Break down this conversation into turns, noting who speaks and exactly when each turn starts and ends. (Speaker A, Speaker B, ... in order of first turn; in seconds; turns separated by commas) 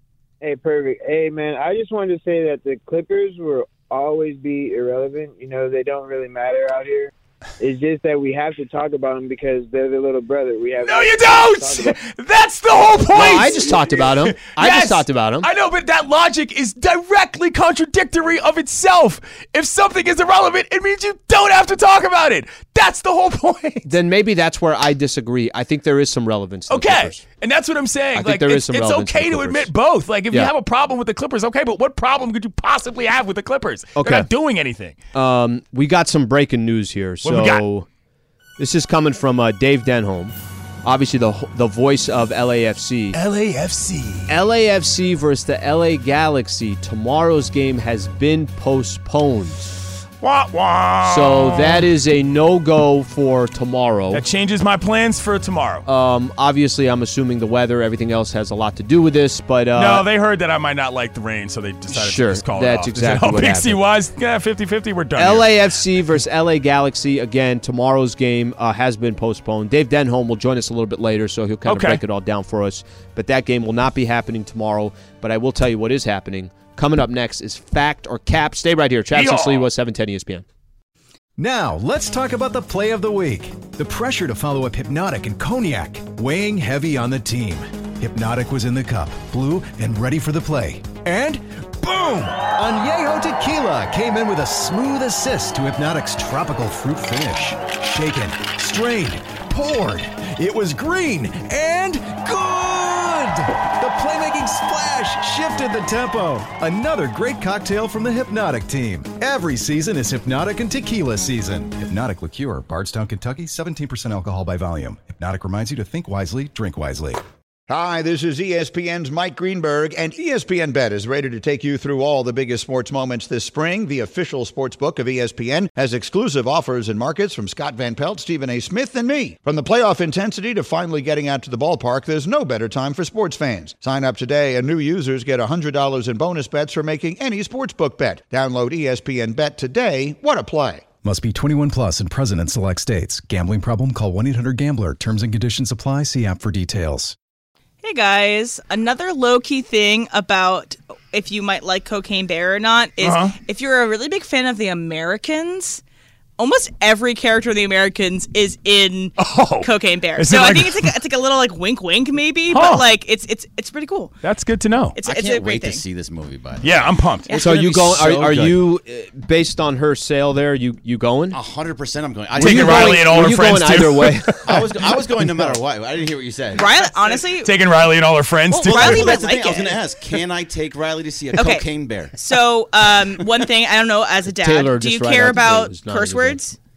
Speaker A: 0.4-12.0, Speaker B: 10.8-23.9, Speaker A: 12.9-13.8, Speaker C: 13.1-15.5, Speaker C: 23.9-27.2, Speaker B: 26.7-35.0, Speaker C: 28.1-29.7, Speaker C: 34.0-34.3, Speaker C: 35.1-37.9, Speaker B: 37.2-37.6, Speaker C: 38.6-43.2, Speaker B: 43.1-44.3, Speaker C: 44.3-49.7, Speaker B: 50.2-51.8, Speaker C: 51.0-54.2, Speaker B: 54.1-55.9, Speaker C: 55.9-60.0, Speaker B: 59.7-65.5, Speaker C: 61.9-63.8, Speaker C: 65.2-80.4, Speaker B: 71.7-72.0, Speaker B: 79.1-79.7, Speaker D: 81.4-117.2, Speaker E: 117.7-140.8, Speaker D: 141.0-147.2, Speaker F: 147.8-155.8, Speaker B: 153.0-153.3, Speaker F: 156.4-164.1, Speaker B: 159.2-160.9, Speaker B: 162.5-162.8, Speaker B: 164.2-164.9, Speaker F: 164.9-165.8, Speaker G: 165.0-166.9, Speaker B: 166.6-167.3, Speaker F: 167.3-167.6, Speaker C: 167.3-171.4, Speaker G: 167.4-168.6, Speaker G: 171.3-173.6, Speaker C: 172.3-175.6, Speaker B: 172.4-174.5, Speaker G: 174.4-176.6, Speaker F: 176.5-177.5, Speaker B: 176.6-179.2, Speaker F: 178.5-179.8, Speaker G: 178.6-182.2, Speaker F: 181.3-186.6, Speaker G: 183.2-183.4, Speaker C: 184.3-186.4